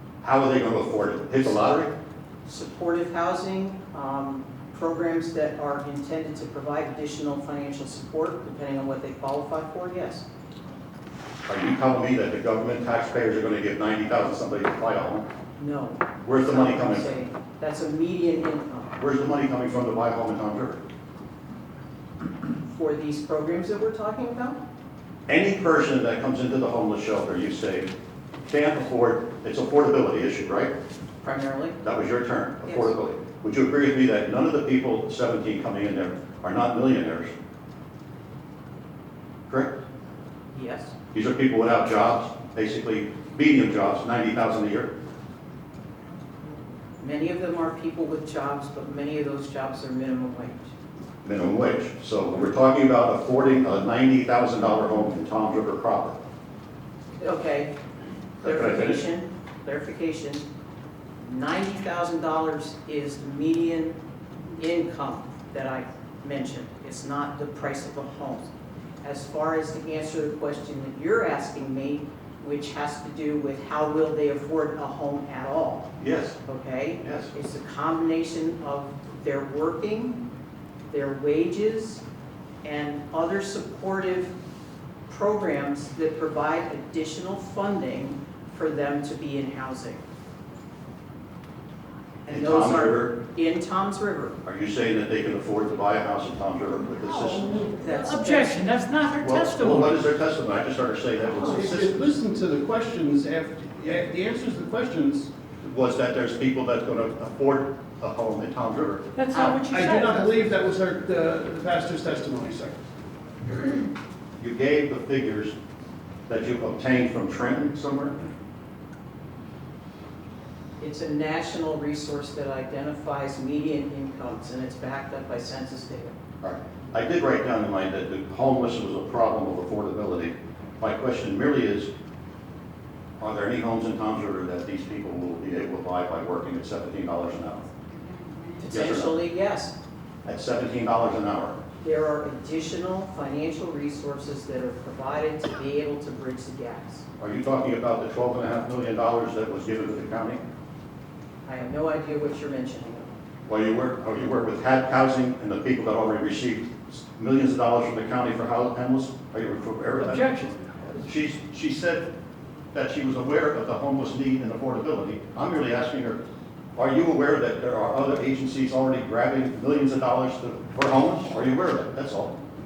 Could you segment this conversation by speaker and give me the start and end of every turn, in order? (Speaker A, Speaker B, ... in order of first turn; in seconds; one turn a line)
Speaker A: 0.2-1.9
Speaker B: 2.5-10.2
Speaker A: 11.5-15.2
Speaker B: 15.6-18.9
Speaker A: 16.2-17.1
Speaker A: 19.0-20.8
Speaker B: 22.7-24.6
Speaker A: 25.3-27.9
Speaker A: 28.5-30.7
Speaker B: 31.2-31.8
Speaker A: 31.8-37.3
Speaker B: 40.5-40.9
Speaker A: 41.1-44.9
Speaker B: 47.0-50.7
Speaker A: 51.2-56.2
Speaker B: 57.2-57.7
Speaker A: 58.4-59.0
Speaker B: 58.4-60.5
Speaker B: 61.2-64.0
Speaker B: 64.6-68.5
Speaker B: 69.0-75.9
Speaker A: 76.0-76.4
Speaker B: 76.5-80.2
Speaker A: 77.0-77.3
Speaker B: 80.9-82.0
Speaker B: 82.6-84.3
Speaker B: 85.1-90.0
Speaker B: 92.3-94.4
Speaker A: 92.3-93.1
Speaker A: 94.5-97.7
Speaker B: 97.8-98.7
Speaker C: 97.8-100.0
Speaker A: 99.2-102.0
Speaker D: 101.5-105.3
Speaker A: 105.6-109.0
Speaker C: 109.2-110.5
Speaker D: 109.7-112.8
Speaker A: 114.4-115.5
Speaker A: 116.3-118.2
Speaker B: 120.8-126.2
Speaker A: 126.4-131.9
Speaker A: 133.2-137.7
Speaker B: 138.6-139.7
Speaker A: 138.7-139.2
Speaker A: 140.2-141.6
Speaker B: 141.8-147.0
Speaker A: 147.2-150.4
Speaker B: 151.5-153.1
Speaker A: 153.5-160.3
Speaker C: 160.0-160.6
Speaker A: 161.0-162.1
Speaker A: 162.7-166.2
Speaker A: 166.8-172.3